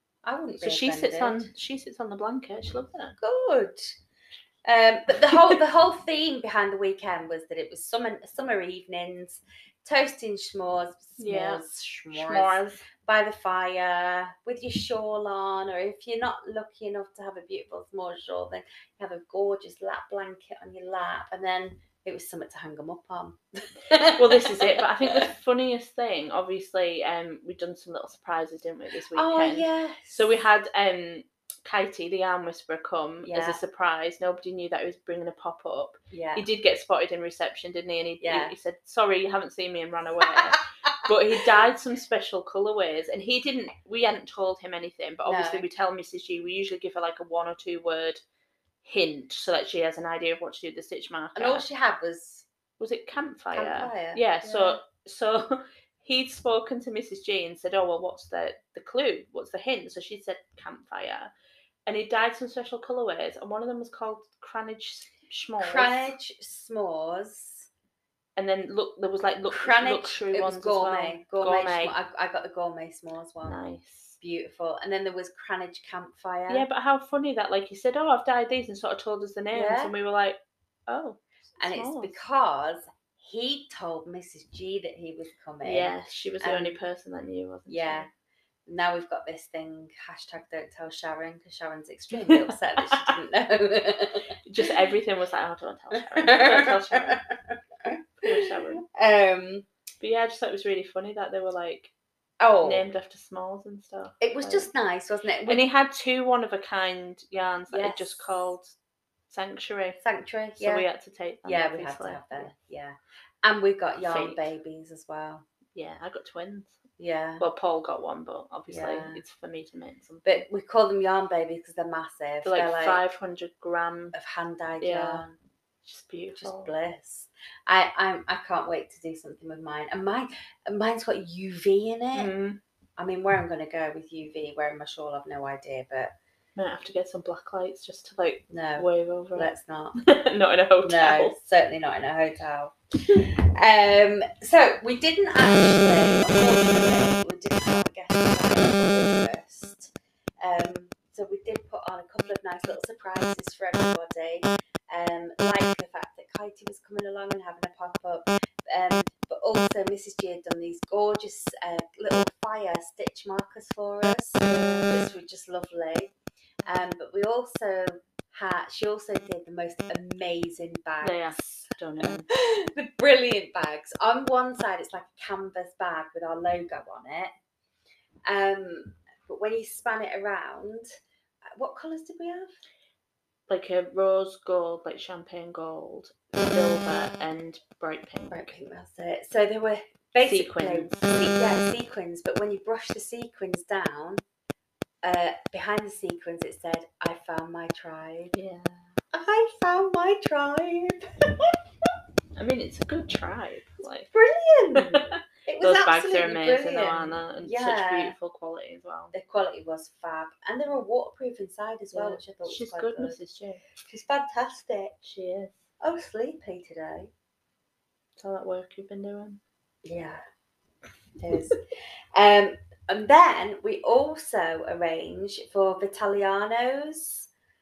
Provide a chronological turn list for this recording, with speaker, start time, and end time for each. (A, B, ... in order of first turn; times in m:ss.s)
0:00.2-0:01.5 A
0:00.6-0:03.2 B
0:03.2-0:04.0 A
0:04.6-0:25.3 A
0:05.2-0:05.6 B
0:11.2-0:12.8 B
0:24.1-0:48.2 B
0:29.1-0:30.4 A
0:33.2-0:33.6 A
0:36.1-0:36.4 A
0:38.2-0:38.5 A
0:40.2-0:41.1 A
0:45.2-0:45.7 A
0:48.8-0:51.6 B
0:51.4-0:52.4 A
0:52.8-1:01.3 B
0:53.5-0:54.8 A
1:01.8-1:06.1 B
1:05.6-1:07.7 A
1:08.4-1:11.9 B
1:09.5-1:13.6 A
1:13.4-1:14.2 B
1:14.2-1:16.7 A
1:16.5-1:22.2 B
1:19.5-1:19.9 A
1:21.6-1:26.8 A
1:25.6-1:28.1 B
1:27.7-1:28.1 A
1:28.7-1:34.7 A
1:32.1-1:33.1 B
1:34.4-1:37.2 B
1:35.9-1:39.7 A
1:38.2-1:38.8 B
1:40.0-1:41.9 B
1:42.4-1:42.9 A
1:42.6-1:44.7 B
1:44.2-1:45.6 A
1:45.5-1:48.8 B
1:47.7-1:48.5 A
1:49.3-1:50.0 B
1:50.0-1:50.8 A
1:50.6-1:52.5 B
1:51.4-1:55.4 A
1:54.0-1:54.4 B
1:55.7-1:56.8 B
1:57.0-1:57.4 A
1:57.4-2:00.4 B
1:58.7-1:59.2 A
2:00.2-2:03.0 A
2:02.4-2:04.1 B
2:04.1-2:05.4 A
2:04.8-2:05.2 B
2:05.8-2:06.7 B
2:06.3-2:12.3 A
2:12.1-2:12.6 B
2:13.0-2:16.1 A
2:16.6-2:21.3 B
2:18.5-2:20.0 A
2:20.8-2:46.1 A
2:44.4-2:45.0 B
2:46.6-2:51.4 A
2:51.0-2:52.3 B
2:52.0-2:57.3 A
2:58.2-3:00.9 A
3:01.5-3:02.5 A
3:03.5-3:08.5 B
3:08.3-3:14.2 A
3:10.2-3:11.0 B
3:15.0-3:18.4 A
3:18.3-3:18.9 B
3:19.1-3:21.5 A
3:22.3-3:24.1 B
3:24.1-3:28.1 A
3:24.7-3:29.1 B
3:29.1-3:33.2 A
3:31.9-3:33.6 B
3:33.8-3:35.0 A
3:35.0-3:35.6 B
3:35.8-3:37.1 A
3:38.2-3:39.4 B
3:39.8-3:40.2 A
3:41.2-3:41.6 A
3:42.1-3:47.3 A